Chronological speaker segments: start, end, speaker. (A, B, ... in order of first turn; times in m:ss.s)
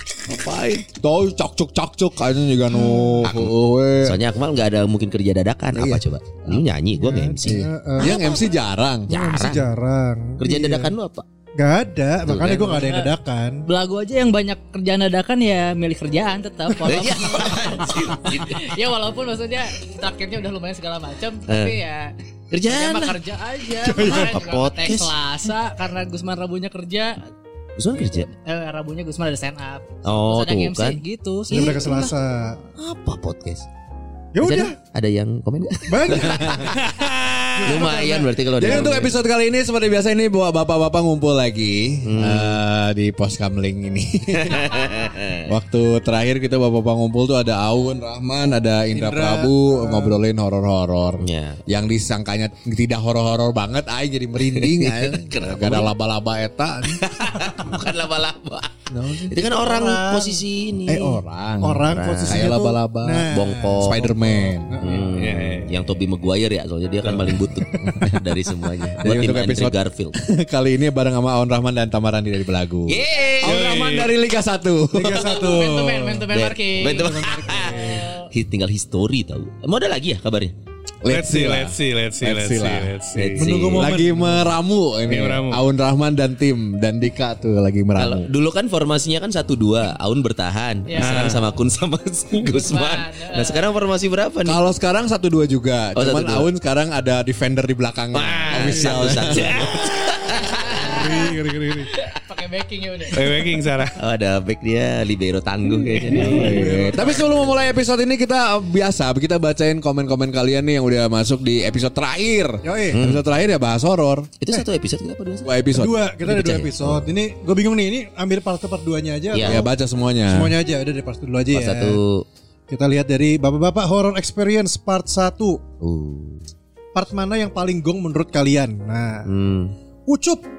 0:00.3-0:04.2 A
0:02.8-0:03.1 B
0:03.2-0:08.1 C
0:05.7-0:06.6 A
0:07.0-0:08.2 B
0:07.4-0:09.1 A
0:09.1-0:09.7 C
0:09.1-0:10.9 B
0:10.4-0:11.2 C
0:11.6-0:13.6 B
0:12.2-0:13.0 C
0:12.7-0:13.1 D
0:13.6-0:27.3 D
0:16.8-0:18.7 C
0:21.5-0:21.8 C
0:22.5-0:23.2 C
0:23.8-0:24.4 B
0:24.0-0:25.1 C
0:27.8-0:28.3 C
0:28.1-0:32.0 D
0:30.0-0:32.1 C
0:31.5-0:32.6 B
0:32.8-0:33.7 C
0:34.3-0:34.7 B
0:34.4-0:36.7 C
0:35.9-0:36.6 B
0:36.6-0:37.9 E
0:37.6-0:38.6 B
0:37.6-0:39.1 C
0:38.6-0:44.8 A
0:42.0-0:42.6 C
0:44.3-0:45.4 C
0:45.5-0:57.1 A
0:48.9-0:50.2 B
0:51.2-0:51.6 C
0:54.4-0:55.9 C
0:57.0-1:01.2 C
0:58.9-1:00.4 B
0:59.0-0:59.3 A
1:00.9-1:04.8 A
1:01.6-1:05.2 B
1:01.8-1:02.7 C
1:03.3-1:04.1 C
1:04.8-1:10.2 C
1:05.2-1:05.8 E
1:07.3-1:07.9 B
1:07.8-1:08.2 A
1:09.0-1:15.4 A
1:12.9-1:13.6 C
1:13.4-1:14.1 E
1:14.9-1:16.3 B
1:15.2-1:18.2 D
1:16.3-1:20.5 C
1:16.8-1:18.1 B
1:21.0-1:22.9 A
1:21.1-1:23.5 E
1:23.2-1:23.9 C
1:23.4-1:24.5 B
1:23.7-1:28.3 A
1:25.1-1:25.6 E
1:28.0-1:34.6 C
1:30.9-1:31.4 D
1:31.0-1:31.4 E
1:32.5-1:33.7 D
1:34.4-1:39.7 A
1:36.0-1:36.5 C
1:38.1-1:41.0 C
1:38.5-1:39.1 B
1:39.3-1:39.6 E
1:40.8-1:41.9 B
1:42.1-1:43.2 D
1:43.1-1:43.9 E
1:44.0-1:46.6 C
1:46.1-1:47.5 B
1:46.3-1:54.3 A
1:52.6-1:53.0 B
1:52.9-1:53.2 C
1:54.4-1:55.5 C
1:55.4-1:56.0 A
1:55.7-1:59.6 B
1:56.2-1:57.1 C
1:59.3-1:59.7 C
1:59.4-2:00.6 A
2:00.3-2:02.0 B
2:01.5-2:02.2 C
2:02.7-2:05.6 B
2:05.8-2:06.4 C
2:06.9-2:09.3 B
2:09.2-2:09.7 C
2:10.1-2:10.4 B